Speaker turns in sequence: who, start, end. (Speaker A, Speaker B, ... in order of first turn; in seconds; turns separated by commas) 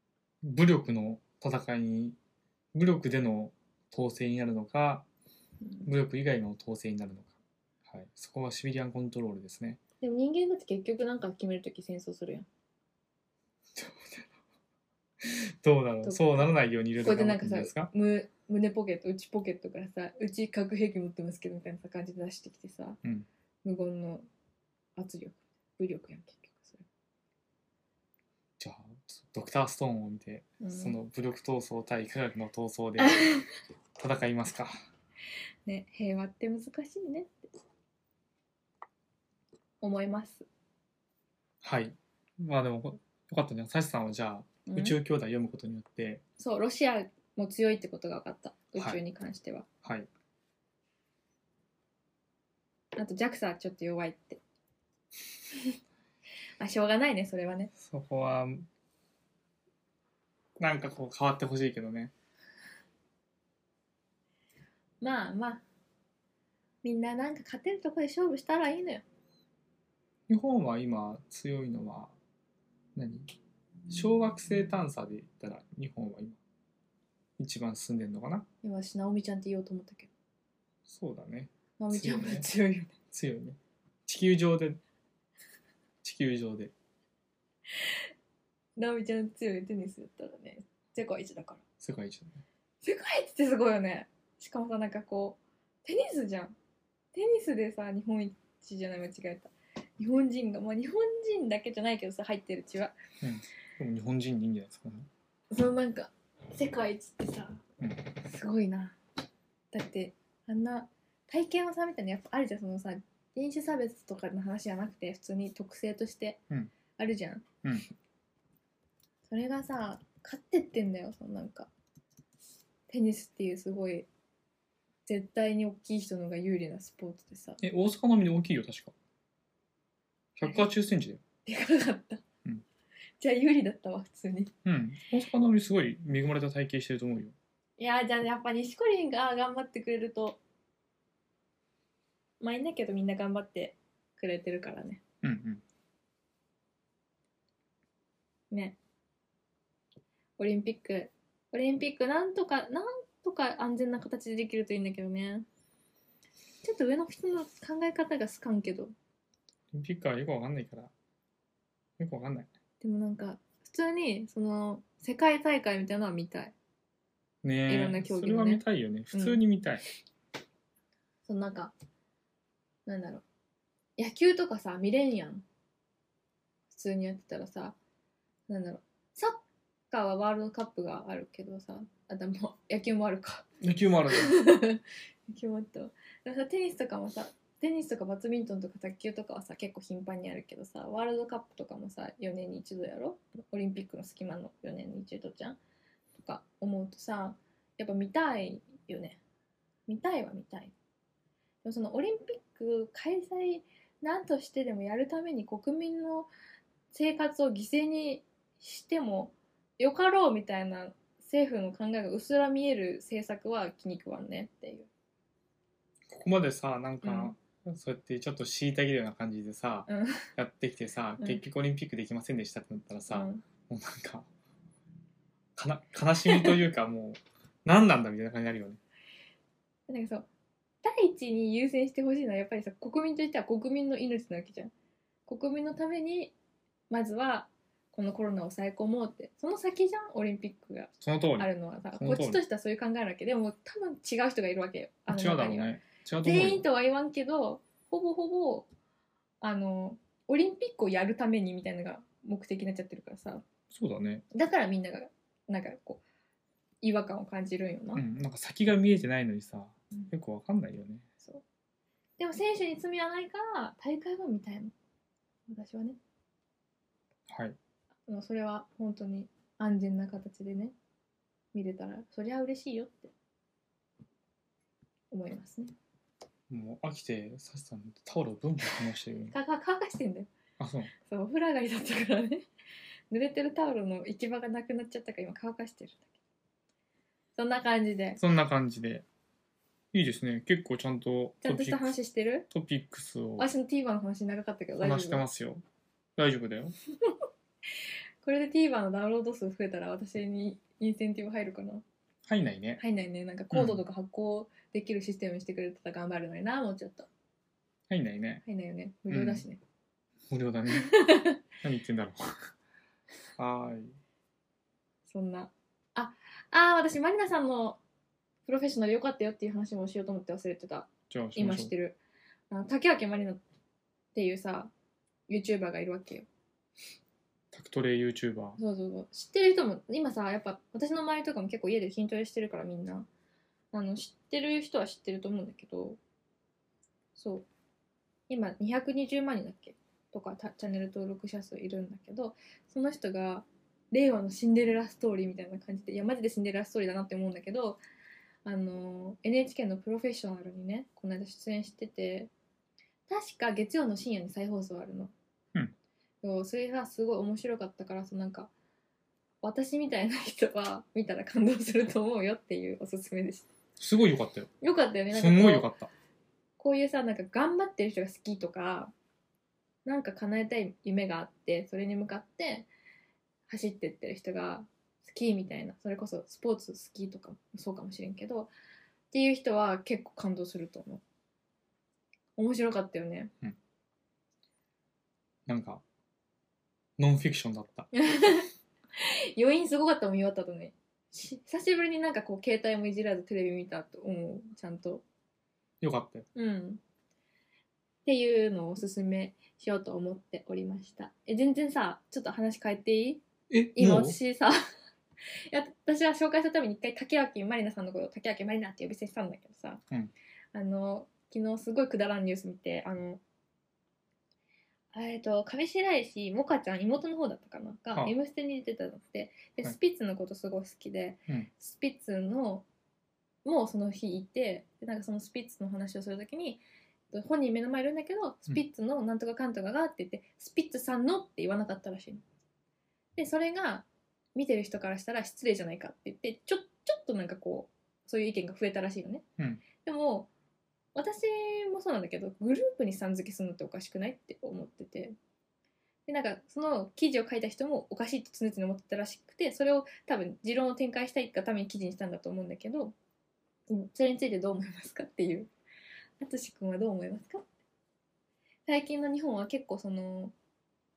Speaker A: 0.4-2.2, Speaker A: 2.7-5.0, Speaker A: 5.8-7.3, Speaker A: 7.9-9.8, Speaker B: 10.0-12.5, Speaker A: 13.8-14.3, Speaker A: 15.2-17.9, Speaker B: 16.0-16.5, Speaker B: 17.0-23.0, Speaker B: 23.6-24.3, Speaker B: 24.9-26.9, Speaker A: 28.6-33.4, Speaker B: 30.6-31.0, Speaker B: 33.0-33.3, Speaker A: 34.0-34.8, Speaker B: 35.6-37.5, Speaker B: 39.8-40.5, Speaker A: 41.6-46.2, Speaker B: 44.7-45.0, Speaker B: 46.4-49.7, Speaker B: 52.9-54.4, Speaker B: 56.6-57.7, Speaker A: 57.8-58.7, Speaker A: 60.6-62.1, Speaker B: 65.0-65.6, Speaker B: 66.8-69.0, Speaker A: 70.3-72.1, Speaker A: 73.0-73.3, Speaker A: 73.9-76.4, Speaker A: 77.4-78.5, Speaker B: 78.6-80.1, Speaker A: 80.9-82.5, Speaker B: 81.8-82.9, Speaker A: 83.1-84.8, Speaker A: 86.0-86.7, Speaker B: 88.8-91.6, Speaker A: 91.8-92.4, Speaker B: 92.8-96.5, Speaker B: 97.1-102.9, Speaker A: 103.2-105.1, Speaker B: 105.5-107.6, Speaker B: 108.1-109.0, Speaker B: 109.7-116.4, Speaker B: 117.0-117.5, Speaker A: 117.6-117.9, Speaker B: 119.3-121.7, Speaker B: 122.9-124.1, Speaker B: 125.1-127.6, Speaker A: 127.6-128.9, Speaker A: 130.4-131.2, Speaker B: 131.4-132.2, Speaker B: 133.2-134.5, Speaker A: 134.6-137.4, Speaker B: 137.8-140.4, Speaker B: 142.4-145.0, Speaker A: 145.2-145.6, Speaker B: 148.5-148.8, Speaker B: 150.4-155.4, Speaker B: 156.6-158.9, Speaker A: 159.7-160.9, Speaker A: 162.0-162.5, Speaker B: 162.8-166.5, Speaker A: 167.4-169.8, Speaker B: 167.7-169.4, Speaker B: 171.3-171.7, Speaker B: 172.9-173.2, Speaker B: 174.0-175.4, Speaker B: 176.7-177.8, Speaker B: 178.5-183.5, Speaker A: 183.6-184.4, Speaker B: 184.1-195.6, Speaker B: 196.2-199.2, Speaker B: 199.9-200.7, Speaker B: 201.6-206.3, Speaker B: 206.9-214.9, Speaker A: 216.1-224.3, Speaker B: 217.0-217.3, Speaker B: 219.9-220.3, Speaker B: 223.1-223.4, Speaker A: 225.6-228.8, Speaker B: 226.3-226.6, Speaker B: 229.9-230.3, Speaker B: 230.8-234.7, Speaker B: 235.3-236.3, Speaker B: 236.9-245.7, Speaker A: 241.0-242.4, Speaker A: 245.1-246.6, Speaker B: 246.2-248.7, Speaker B: 249.4-253.4, Speaker A: 253.7-254.2, Speaker B: 254.3-256.0, Speaker B: 256.8-258.0, Speaker A: 257.9-261.1, Speaker B: 262.2-264.7, Speaker B: 265.5-266.0, Speaker A: 267.3-267.6, Speaker B: 268.1-270.7, Speaker B: 271.5-273.1, Speaker B: 275.1-275.7, Speaker A: 276.5-279.3, Speaker B: 279.3-280.3, Speaker A: 280.6-280.9, Speaker B: 281.0-282.5, Speaker B: 283.1-286.1, Speaker B: 287.4-288.2, Speaker A: 288.2-289.1, Speaker A: 289.9-291.9, Speaker B: 291.4-292.5, Speaker A: 292.5-293.5, Speaker B: 293.4-295.2, Speaker A: 294.8-295.6, Speaker A: 296.2-296.7, Speaker B: 298.2-301.8, Speaker A: 302.3-302.8, Speaker B: 302.8-307.1, Speaker A: 303.5-303.8, Speaker A: 307.9-308.4, Speaker B: 308.4-309.6, Speaker A: 309.1-309.4, Speaker A: 310.3-310.9, Speaker B: 310.7-311.4, Speaker A: 311.6-312.5, Speaker A: 313.4-314.0, Speaker B: 315.1-317.8, Speaker B: 318.4-322.0, Speaker A: 321.1-321.7, Speaker B: 322.5-323.4, Speaker B: 324.1-324.7, Speaker B: 325.3-326.3, Speaker A: 327.5-328.6, Speaker B: 328.6-333.1, Speaker B: 333.7-336.0, Speaker B: 337.1-337.4, Speaker B: 338.3-347.8, Speaker B: 348.4-352.3, Speaker B: 353.1-355.1, Speaker B: 356.2-358.5, Speaker B: 359.4-363.5, Speaker A: 363.8-364.5, Speaker B: 364.6-365.7, Speaker A: 365.1-365.9, Speaker B: 366.6-368.9, Speaker B: 369.8-372.7, Speaker B: 373.5-378.5, Speaker B: 379.1-381.0, Speaker B: 382.4-383.3, Speaker A: 385.5-385.8, Speaker A: 387.0-387.9, Speaker B: 387.9-395.0, Speaker A: 395.8-396.3, Speaker B: 396.3-396.8, Speaker B: 398.1-403.2, Speaker A: 403.5-404.2, Speaker B: 403.7-404.6, Speaker B: 405.2-409.8, Speaker B: 410.5-413.2, Speaker B: 414.9-422.6, Speaker B: 423.4-432.2, Speaker B: 433.1-439.2, Speaker B: 439.7-440.3, Speaker B: 440.9-445.1, Speaker B: 446.1-452.9, Speaker B: 453.7-455.5, Speaker B: 456.2-457.5, Speaker B: 458.6-460.3